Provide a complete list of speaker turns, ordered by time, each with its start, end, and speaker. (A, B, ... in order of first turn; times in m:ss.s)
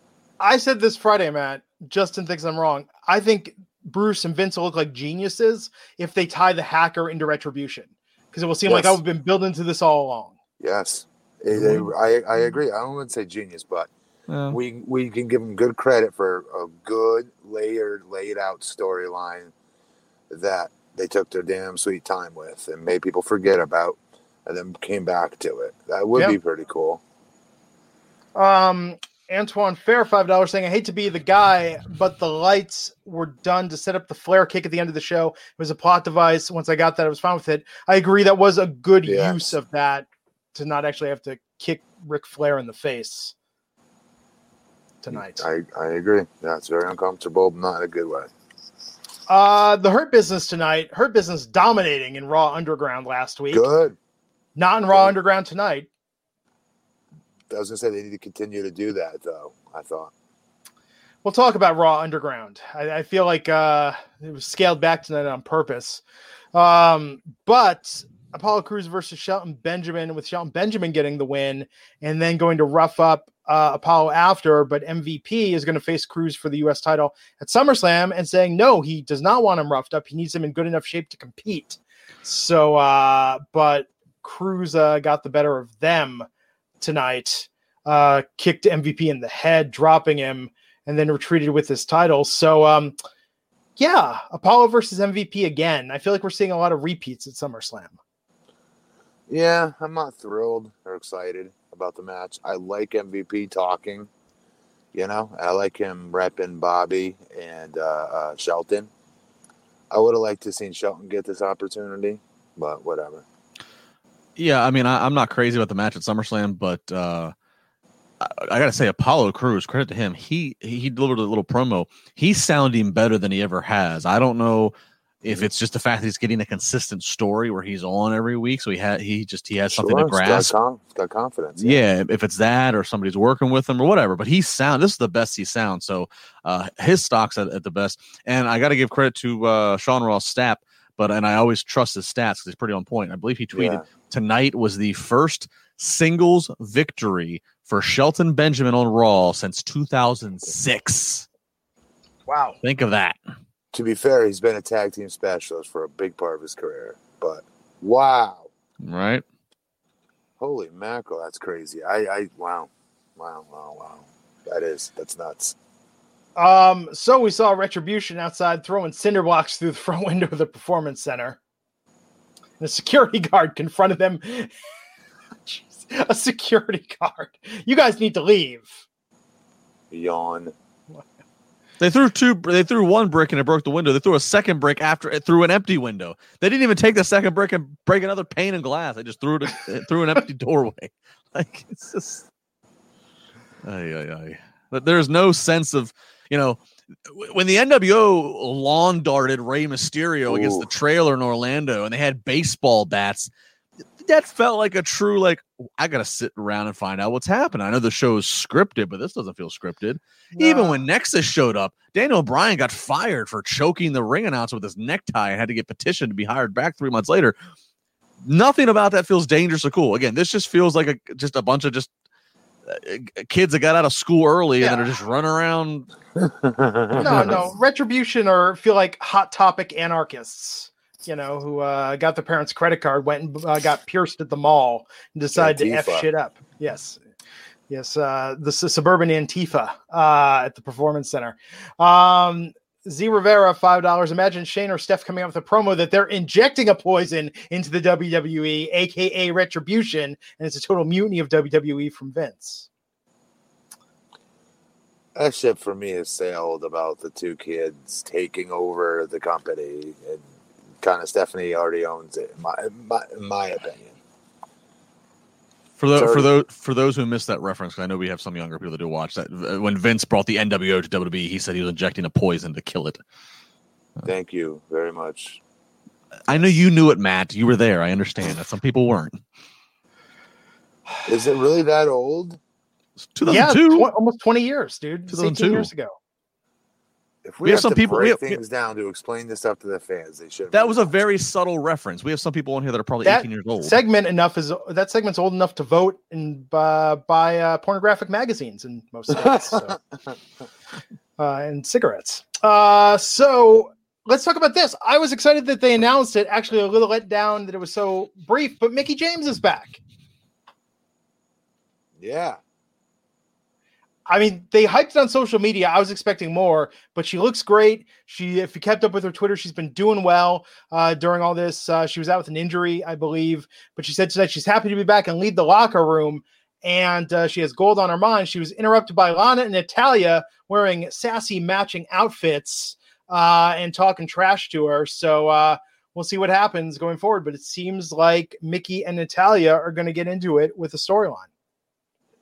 0:00.4-0:10.4 A
0:08.7-0:09.0 B
0:10.6-0:13.9 B
0:11.5-0:11.9 C
0:14.3-0:14.6 C
0:14.5-0:19.5 B
0:20.3-0:27.0 B
0:28.3-0:43.3 A
0:39.0-0:39.5 B
0:45.0-0:45.4 A
0:45.1-0:48.3 B
0:49.3-0:53.7 A
0:53.5-0:54.0 B
0:54.6-0:55.9 A
0:57.5-1:00.1 B
1:01.2-1:06.0 A
1:06.5-1:26.3 A
1:26.8-1:32.9 A
1:33.8-1:38.0 A
1:39.3-1:44.1 B
1:44.9-1:48.9 B
1:49.9-1:53.2 B
1:54.4-1:57.3 C
1:58.2-2:10.5 C
2:09.7-2:11.8 B
2:11.6-2:31.3 C
2:23.5-2:23.8 B
2:32.3-2:32.6 A
2:32.6-2:33.2 C
2:33.7-2:38.5 B
2:38.8-2:39.2 C
2:40.4-2:45.5 B
2:46.4-2:51.4 A
2:52.6-2:54.5 A
2:55.4-2:58.8 A
2:59.9-3:00.5 B
3:01.8-3:12.2 C
3:13.6-3:23.3 C
3:20.2-3:20.7 B
3:24.0-3:37.3 C
3:30.4-3:30.8 A
3:38.2-3:41.9 C
3:42.7-3:45.9 C
3:44.6-3:44.9 A
3:46.2-3:47.4 B
3:46.9-3:57.0 A
3:47.0-3:47.5 C
3:55.4-3:56.1 B
3:57.7-4:12.7 A
4:15.1-4:20.2 B
4:20.8-4:24.0 B
4:25.8-4:33.0 C
4:25.9-4:26.3 B
4:34.0-4:35.4 B
4:36.3-4:39.2 C
4:41.0-4:42.4 B
4:43.0-4:43.9 C
4:43.2-4:46.0 A
4:45.1-4:45.7 C
4:47.2-4:50.9 B
4:47.4-4:48.4 C
4:50.5-4:53.8 C
4:53.0-4:59.8 A
5:01.2-5:09.8 A
5:12.0-5:12.4 B
5:14.1-5:41.3 A